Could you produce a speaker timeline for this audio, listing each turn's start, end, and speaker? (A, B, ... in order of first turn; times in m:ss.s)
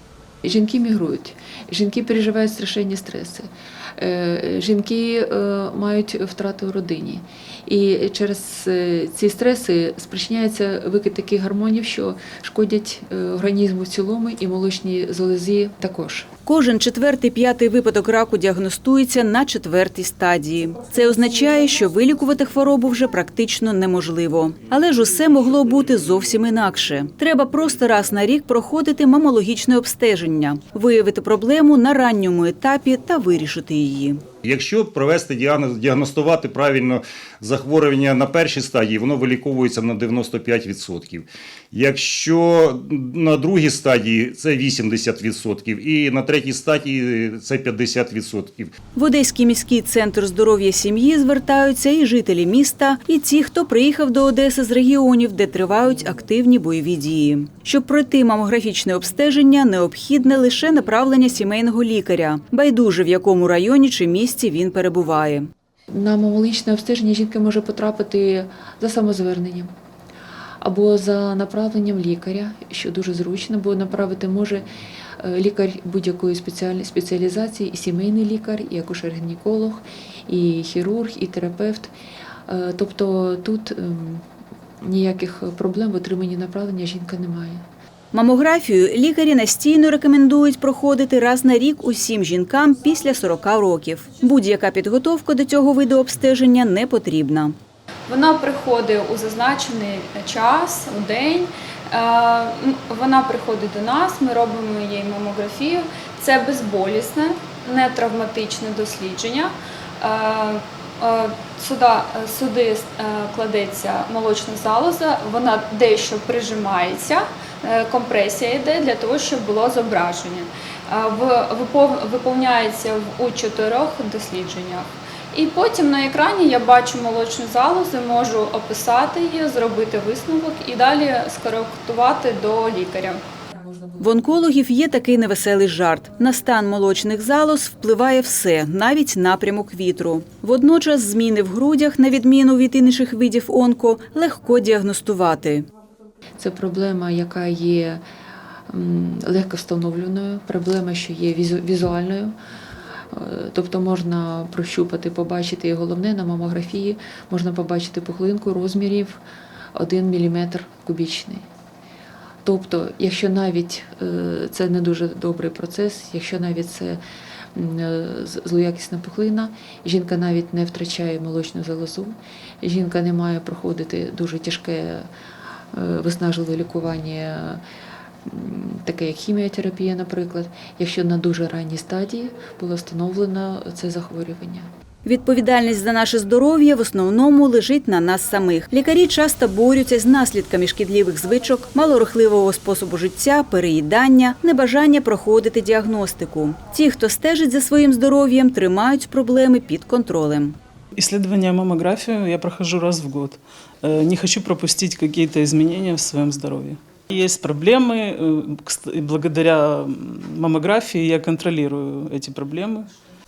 0:00.4-0:03.5 A
0:04.0-0:16.3 A
0:16.5-0:34.2 B
0:34.4-0:48.7 C
0:49.0-1:05.5 B
1:05.9-1:09.7 A
1:10.6-1:14.6 A
1:15.2-1:21.9 A
1:22.5-1:24.2 A
1:24.8-1:27.6 A
1:28.1-1:37.6 B
1:38.1-2:13.2 D
2:13.6-2:14.0 A
2:14.0-2:25.7 B
2:26.4-2:28.0 A
2:28.7-2:32.3 A
2:33.1-2:39.2 A
2:39.8-2:41.4 A
2:42.4-2:47.0 A
2:47.6-2:55.1 A
2:55.7-2:57.6 A
2:58.3-3:04.6 A
3:05.0-3:20.6 B
3:21.0-3:32.9 E